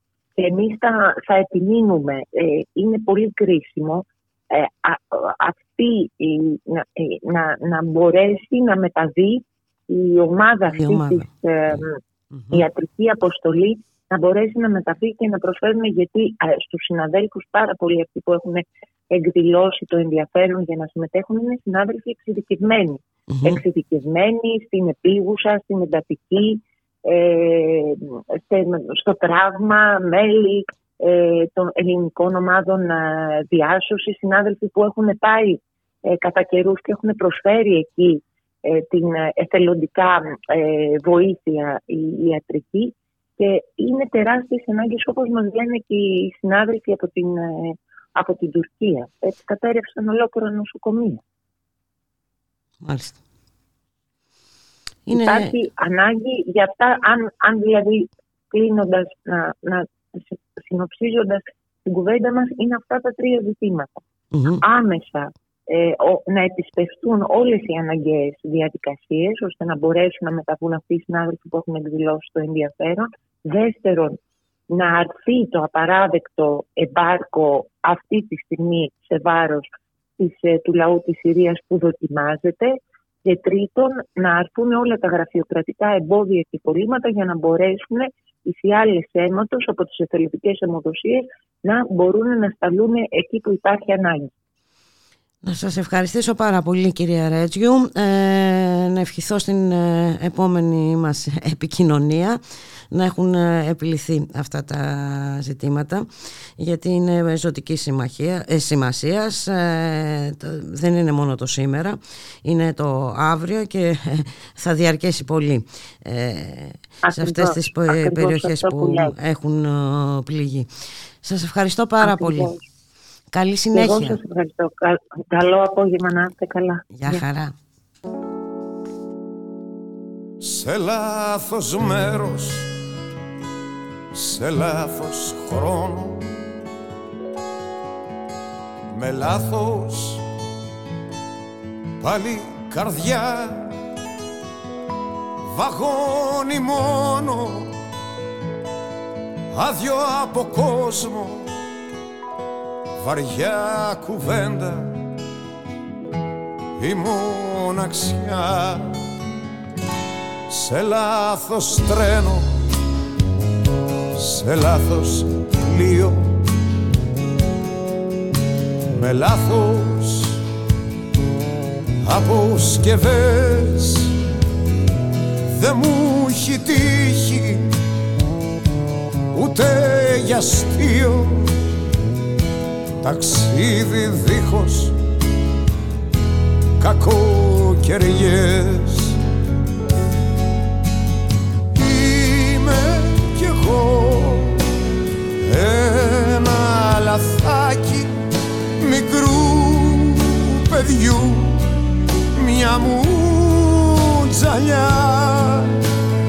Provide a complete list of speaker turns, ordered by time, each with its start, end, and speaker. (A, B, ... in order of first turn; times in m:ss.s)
0:00.4-0:12.0 A
0:10.7-0:11.8 B
0:12.3-0:12.6 B
0:12.5-0:51.2 A
0:23.3-0:23.6 B
0:52.8-0:53.2 B
0:55.1-0:55.5 B
0:55.1-1:03.9 A
1:04.3-1:04.6 B
1:04.6-1:14.2 A
1:14.7-1:34.3 A
1:35.4-1:42.4 B
1:42.9-1:46.1 B
1:46.6-2:00.7 B
1:57.1-1:59.1 A
2:01.2-2:02.5 B
2:02.0-2:02.6 A
2:03.3-2:04.2 B
2:03.7-2:07.2 A
2:07.0-2:07.5 B
2:10.4-2:12.7 C
2:14.1-2:16.2 C
2:18.9-2:20.2 C
2:22.0-2:23.7 C
2:25.6-2:27.7 C
2:29.5-2:31.5 C
2:33.0-2:34.9 C
2:36.8-2:38.9 C
2:40.5-2:42.5 C
2:44.2-2:46.3 C
2:48.9-2:50.4 C
2:52.0-2:54.1 C
2:55.6-2:57.7 C
2:59.3-3:01.5 C
3:03.0-3:04.9 C
3:06.8-3:09.2 C
3:11.8-3:14.6 C
3:15.4-3:18.1 C
3:18.8-3:21.6 C
3:22.4-3:25.7 C